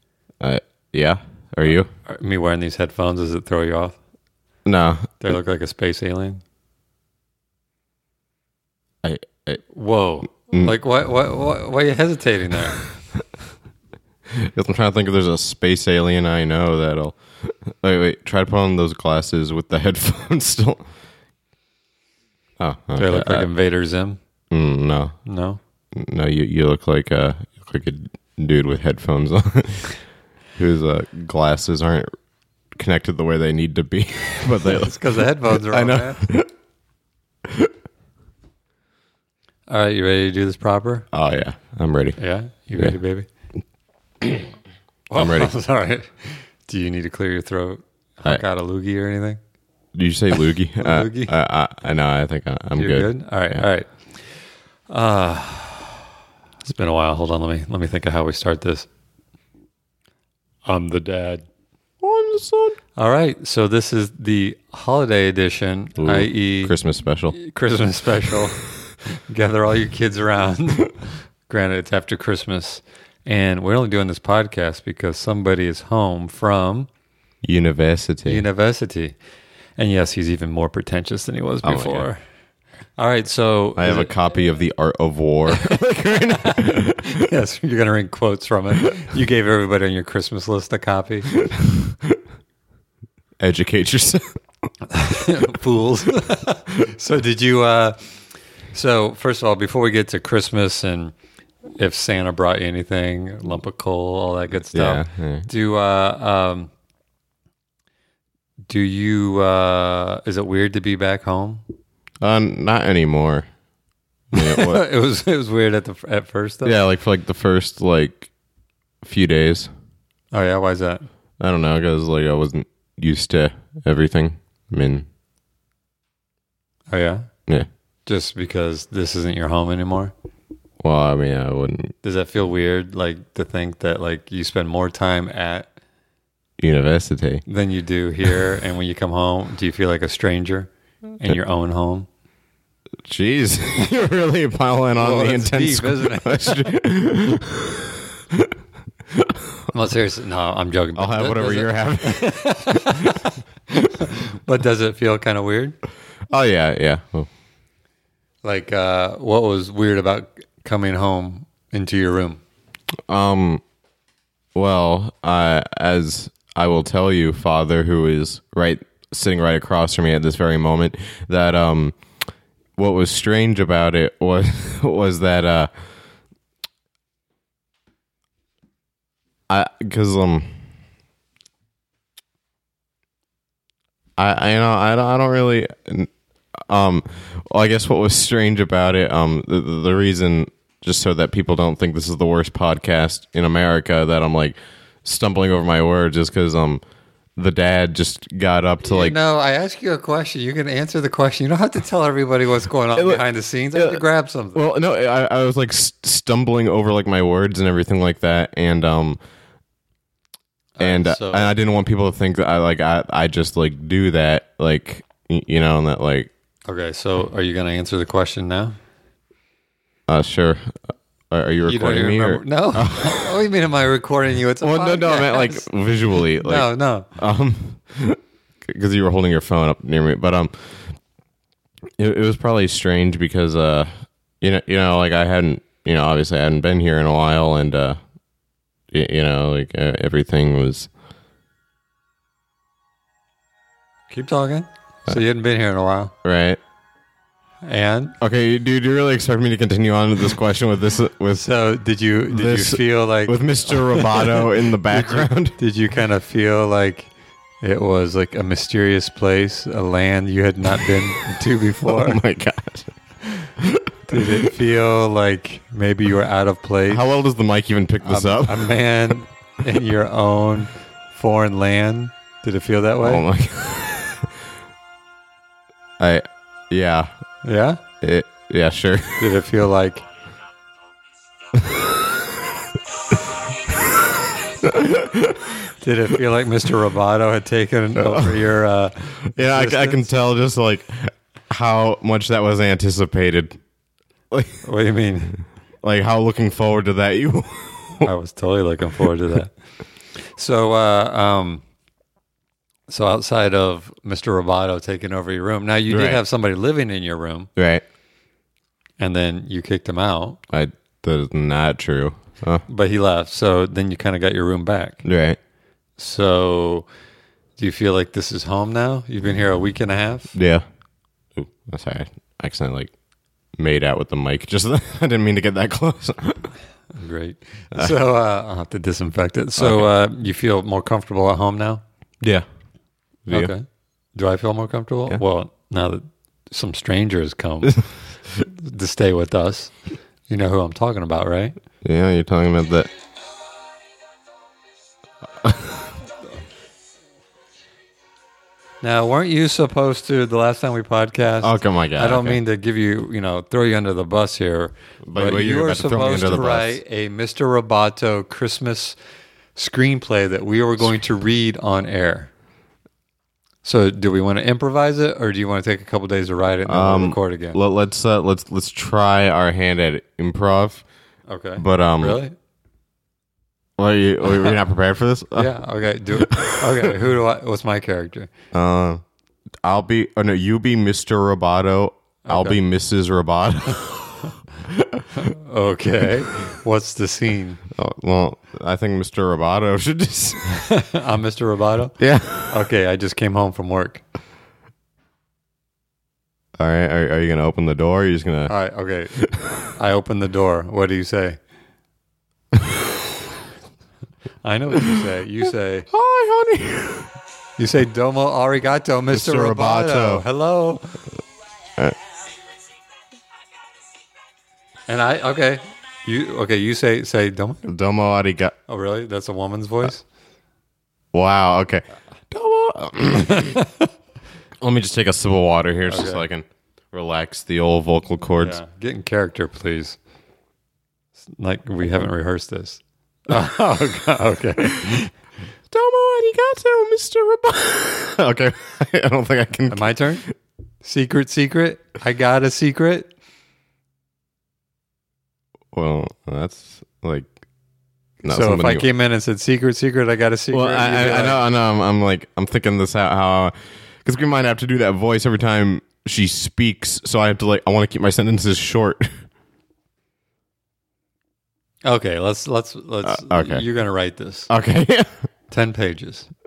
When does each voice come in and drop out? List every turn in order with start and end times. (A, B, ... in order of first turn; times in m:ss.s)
0:00.4-0:01.9 A
0:02.1-0:04.0 B
0:04.7-0:05.1 A
0:05.2-0:06.4 B
0:09.0-0:09.6 A
0:09.7-0:12.8 B
0:14.3-0:20.8 A
0:22.6-0:23.5 A
0:23.0-0:24.2 B
0:24.5-0:25.2 A
0:25.3-0:25.6 B
0:25.9-0:30.0 A
0:30.6-0:32.1 A
0:32.8-0:36.5 A
0:34.6-0:36.2 B
0:37.5-0:37.7 A
0:39.7-0:41.1 B
0:41.1-0:42.2 A
0:42.2-0:43.3 B
0:45.1-0:49.4 B
0:45.1-0:45.5 A
0:49.9-0:53.6 A
0:50.8-0:51.3 B
0:52.8-0:53.9 B
0:54.9-0:56.0 B
0:56.6-0:58.9 B
1:00.7-1:01.4 B
1:02.0-1:02.8 A
1:03.0-1:06.7 B
1:06.0-1:07.4 A
1:07.3-1:16.9 B
1:17.4-1:18.4 A
1:18.3-1:19.2 B
1:19.8-1:22.2 B
1:21.6-1:22.1 A
1:23.0-1:24.1 B
1:23.8-1:27.2 A
1:25.5-1:31.3 B
1:31.4-1:32.2 A
1:33.4-1:34.2 A
1:34.8-1:38.1 B
1:38.7-1:41.2 B
1:41.8-1:46.7 B
1:44.7-1:45.5 A
1:48.7-1:51.6 B
1:52.2-1:53.5 A
1:54.3-1:54.8 A
1:54.3-1:56.8 B
1:56.6-1:58.3 A
1:59.0-1:59.7 A
2:00.3-2:01.1 B
2:01.4-2:05.1 A
2:06.9-2:07.3 B
2:08.1-2:10.1 B
2:10.8-2:11.9 A
2:12.0-2:15.7 B
2:16.6-2:17.4 A
2:17.5-2:22.1 B
2:23.0-2:28.5 A
2:25.0-2:26.6 B
2:29.1-2:29.4 A
2:29.7-2:35.8 B
2:31.0-2:33.3 A
2:36.3-2:37.3 A
2:38.4-2:42.4 B
2:43.1-2:43.6 A
2:44.6-2:52.0 A
2:52.8-2:55.7 A
2:59.5-3:00.6 A
3:04.2-3:06.1 A
3:06.6-3:16.8 A
3:17.4-3:19.2 A
3:18.8-3:24.6 B
3:23.0-3:23.2 A
3:23.8-3:24.0 A
3:24.6-3:29.2 A
3:30.8-3:31.5 B
3:30.8-3:36.3 A
3:36.7-3:38.8 B
3:40.1-3:40.8 A
3:41.3-3:43.3 A
3:41.7-3:45.7 B
3:44.6-3:51.0 A
3:46.4-3:47.1 B
3:52.0-3:53.9 A
3:54.4-3:58.0 A
3:58.9-4:00.9 A
4:04.1-4:06.1 B
4:06.2-4:06.6 A
4:07.7-4:08.2 B
4:08.2-4:11.5 A
4:11.3-4:22.2 B
4:12.3-4:15.6 A
4:21.8-4:22.9 A
4:23.5-4:24.5 A
4:24.1-4:27.0 B
4:26.9-4:28.7 A
4:28.0-4:33.2 B
4:33.0-4:34.3 A
4:36.0-4:37.1 A
4:37.4-4:37.8 B
4:38.0-4:39.3 A
4:39.2-4:40.1 B
4:41.5-4:42.3 A
4:43.7-4:45.6 A
4:45.8-4:50.0 B
4:48.0-4:48.5 A
4:49.4-4:53.6 A
4:54.3-4:54.6 A
4:54.6-4:55.4 B
4:55.8-4:58.1 A
4:58.0-4:59.5 B
5:00.3-5:01.6 B
5:02.9-5:07.5 B
5:05.9-5:06.2 A
5:07.6-5:07.8 A
5:09.0-5:10.4 B
5:10.5-5:12.6 A
5:12.7-5:15.0 B
5:15.0-5:15.4 A
5:16.0-5:16.9 B
5:17.6-5:20.3 B
5:20.3-5:20.6 A
5:21.4-5:22.9 A
5:23.6-5:26.5 A
5:26.9-5:31.8 B
5:29.6-5:29.9 A
5:33.3-5:33.5 A
5:33.3-5:37.8 B
5:38.4-5:39.7 B
5:40.3-5:41.6 B
5:41.8-5:42.9 A
5:45.4-5:45.9 A
5:48.8-5:59.0 B
5:51.4-5:52.4 A
5:55.1-5:56.8 A
5:59.6-6:02.3 B
6:03.6-6:07.6 B
6:06.7-6:10.8 A
6:11.3-6:12.4 B
6:11.6-6:12.2 A
6:13.8-6:15.5 A
6:14.3-6:14.6 B
6:15.4-6:18.3 B
6:16.2-6:17.0 A
6:18.5-6:19.0 A
6:19.6-6:25.3 A
6:22.3-6:22.6 B
6:25.1-6:27.6 B
6:27.7-6:30.5 A
6:30.5-6:34.0 B
6:32.0-6:32.7 A
6:36.6-6:38.5 A
6:38.5-6:39.2 B
6:39.2-6:39.6 A
6:39.7-6:41.4 B
6:42.5-6:42.8 A
6:44.4-6:45.9 B
6:45.9-6:47.1 A
6:47.6-6:50.9 B
6:49.1-6:50.2 A
6:54.9-6:57.7 B
6:57.7-6:58.6 A
6:58.7-7:00.0 B
7:01.1-7:03.6 A
7:03.5-7:03.9 B
7:04.6-7:08.6 A
7:05.9-7:06.2 B
7:08.4-7:10.0 B
7:11.3-7:15.1 B
7:15.7-7:20.3 A
7:19.7-7:20.2 B
7:20.8-7:23.1 B
7:25.7-7:27.3 A
7:28.2-7:28.9 A
7:28.3-7:31.4 B
7:30.5-7:39.1 A
7:41.8-7:44.5 B
7:43.0-7:43.7 A
7:44.5-7:45.1 A
7:45.5-7:46.3 B